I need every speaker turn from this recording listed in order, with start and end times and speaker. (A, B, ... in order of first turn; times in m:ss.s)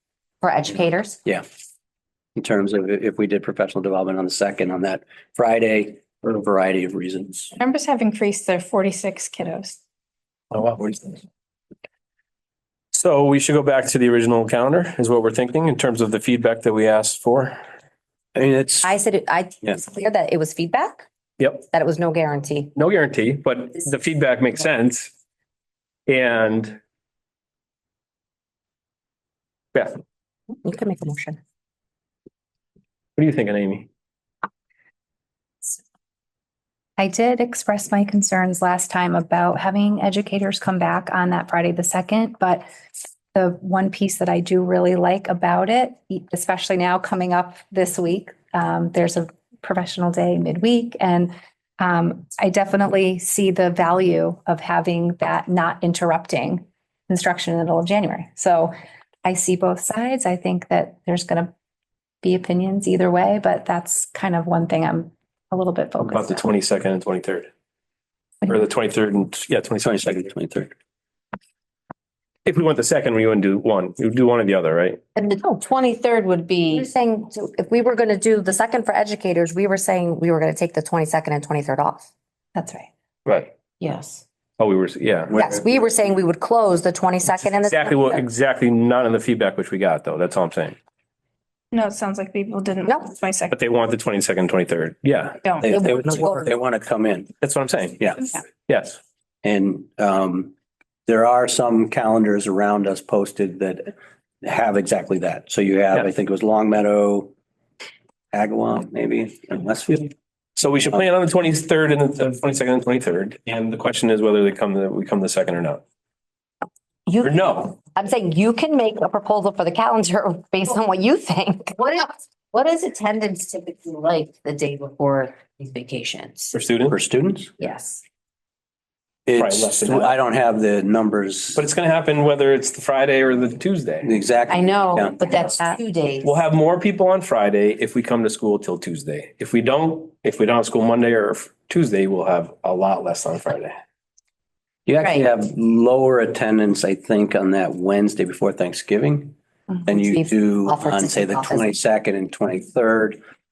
0:00.4-0:01.2 A
0:02.4-0:07.5 B
0:07.6-0:09.8 C
0:10.5-0:11.2 D
0:12.9-0:17.6 D
0:18.4-0:18.9 B
0:18.8-0:21.1 A
0:21.7-0:22.8 A
0:22.8-0:25.1 D
0:26.1-0:26.8 D
0:29.7-0:30.0 D
0:30.6-0:31.4 A
0:33.2-0:33.9 D
0:37.0-0:42.7 E
0:43.3-0:58.7 E
0:59.2-1:01.5 E
1:02.2-1:06.4 E
1:06.1-1:07.5 D
1:08.5-1:10.1 D
1:09.8-1:10.7 B
1:12.5-1:15.0 D
1:15.2-1:15.6 A
1:15.2-1:16.9 F
1:16.7-1:22.1 A
1:22.6-1:22.9 E
1:23.3-1:23.5 D
1:23.8-1:24.2 F
1:24.6-1:25.4 D
1:25.3-1:26.0 B
1:25.4-1:28.2 A
1:27.5-1:30.8 D
1:31.7-1:33.6 C
1:33.5-1:35.4 D
1:35.6-1:37.3 B
1:35.7-1:36.5 A
1:37.4-1:39.0 D
1:39.4-1:40.5 B
1:41.1-1:47.3 B
1:48.3-1:50.1 B
1:50.6-1:55.8 D
1:57.1-2:01.8 A
1:57.2-1:57.8 D
2:01.8-2:06.6 F
2:06.5-2:07.0 D
2:06.9-2:07.5 B
2:07.6-2:08.0 F
2:09.3-2:11.7 B
2:09.4-2:10.1 D
2:11.6-2:14.1 D
2:14.0-2:15.2 B
2:14.5-2:16.4 F
2:16.2-2:23.8 D
2:24.9-2:33.2 B
2:29.7-2:31.7 A